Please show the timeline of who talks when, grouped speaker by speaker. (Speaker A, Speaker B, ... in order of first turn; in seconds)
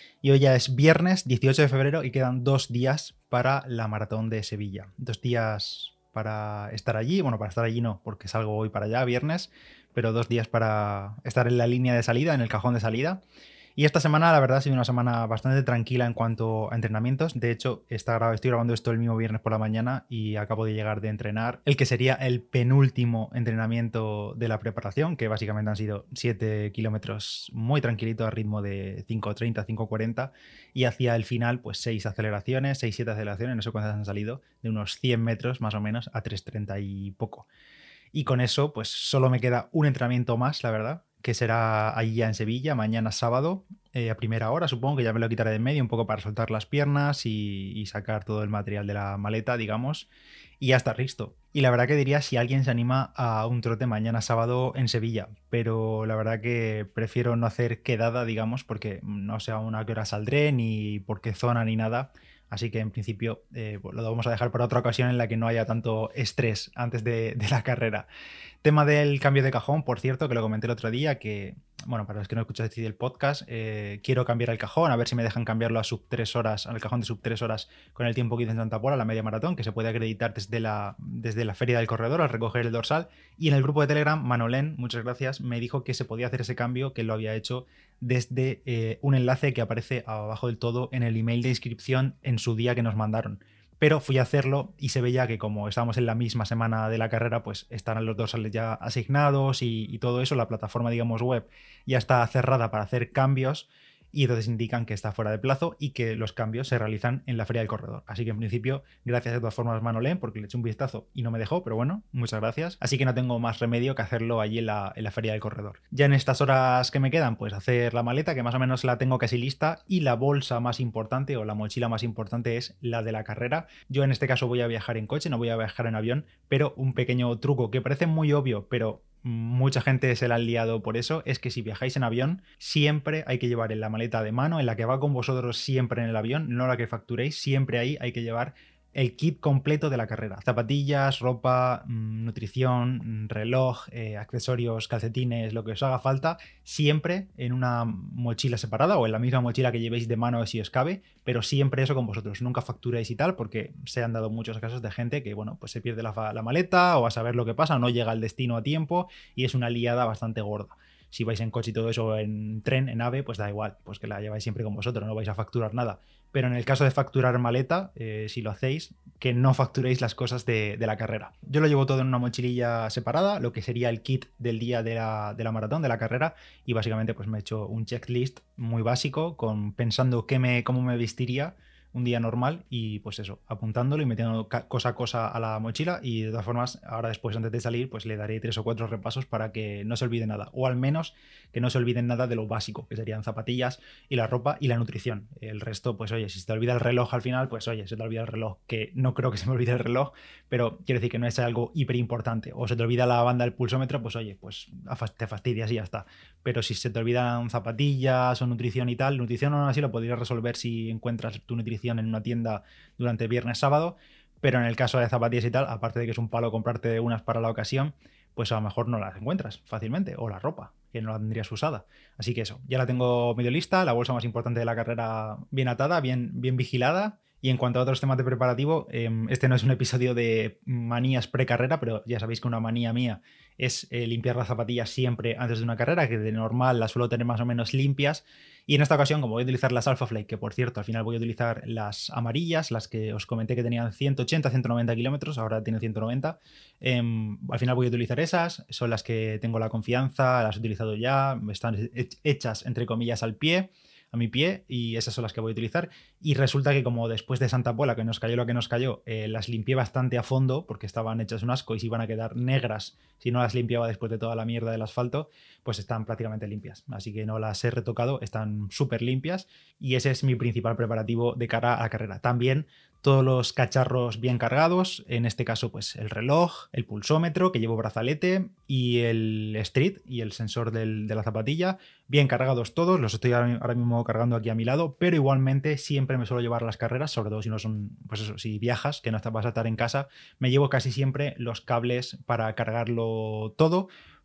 Speaker A: 0.2-13.2, 13.8-37.5, 38.1-50.1, 50.6-68.1, 68.6-293.9